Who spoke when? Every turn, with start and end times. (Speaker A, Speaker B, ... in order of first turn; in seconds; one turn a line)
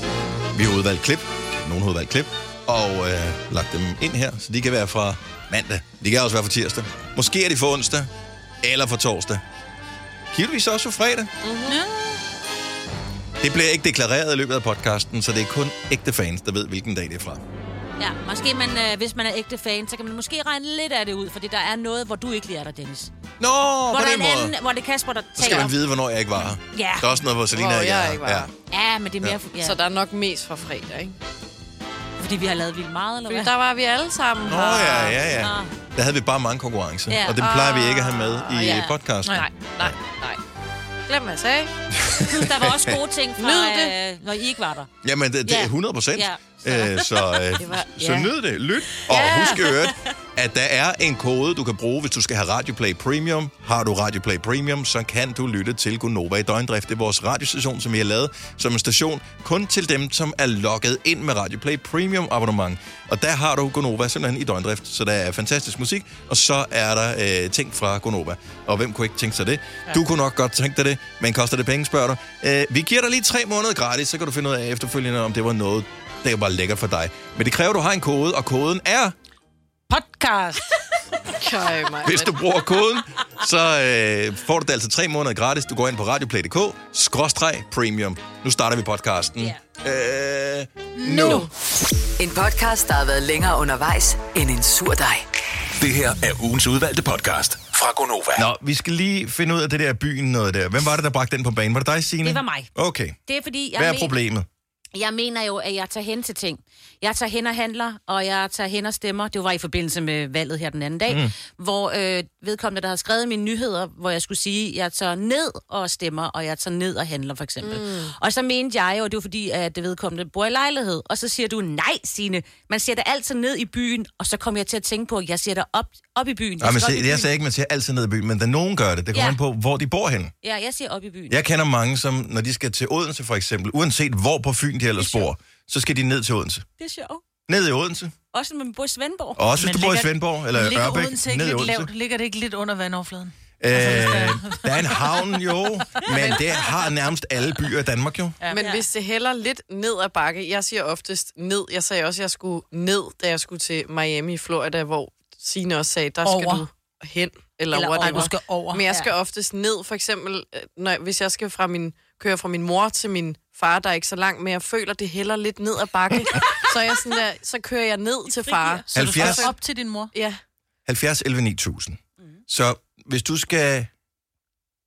Speaker A: 0.5-8.1
Speaker A: 8.6-9.4
Speaker A: 10.3-11.3
Speaker B: 11.4-11.8
Speaker C: 11.7-12.2
Speaker A: 13.4-17.4
Speaker D: 18.0-23.1
Speaker A: 23.4-24.5
Speaker D: 23.9-25.8
Speaker A: 25.4-28.5
Speaker D: 26.7-27.1
Speaker B: 27.5-28.5
Speaker D: 28.7-29.8
Speaker B: 29.6-31.1
Speaker D: 32.2-33.5
Speaker B: 33.3-35.2
Speaker A: 34.5-40.0
Speaker D: 35.4-35.7
Speaker D: 37.1-37.4
Speaker B: 37.4-39.0
Speaker B: 39.7-40.4
Speaker B: 41.1-41.7
Speaker A: 42.0-43.0
Speaker D: 42.2-44.9
Speaker B: 43.4-43.9
Speaker A: 45.0-79.2
Speaker D: 45.5-47.6
Speaker B: 47.6-48.3
Speaker C: 49.1-49.6
Speaker D: 49.5-49.9
Speaker C: 79.9-80.7
Speaker B: 81.3-82.4
Speaker A: 82.0-91.5
Speaker C: 91.0-91.5
Speaker B: 91.2-91.5
Speaker E: 92.2-95.2
Speaker F: 95.8-98.5
Speaker A: 98.4-103.2
Speaker D: 102.2-102.7
Speaker D: 103.3-104.1
Speaker A: 103.7-104.5
Speaker D: 105.0-127.3
Speaker A: 111.1-111.3
Speaker B: 117.6-118.1
Speaker A: 126.6-130.3
Speaker D: 129.1-129.4
Speaker D: 130.4-131.4
Speaker A: 131.3-136.7
Speaker D: 135.0-135.3
Speaker D: 136.8-137.2
Speaker A: 137.5-138.1
Speaker D: 138.3-139.4
Speaker A: 139.4-141.9
Speaker C: 139.6-145.0
Speaker A: 143.6-148.4
Speaker B: 146.1-146.4
Speaker B: 148.5-169.6
Speaker D: 148.6-148.9
Speaker C: 156.2-156.7
Speaker C: 157.8-158.9
Speaker D: 157.8-158.2
Speaker D: 168.3-168.8
Speaker C: 168.8-170.1
Speaker A: 168.9-169.5
Speaker B: 170.1-170.4
Speaker A: 170.9-173.9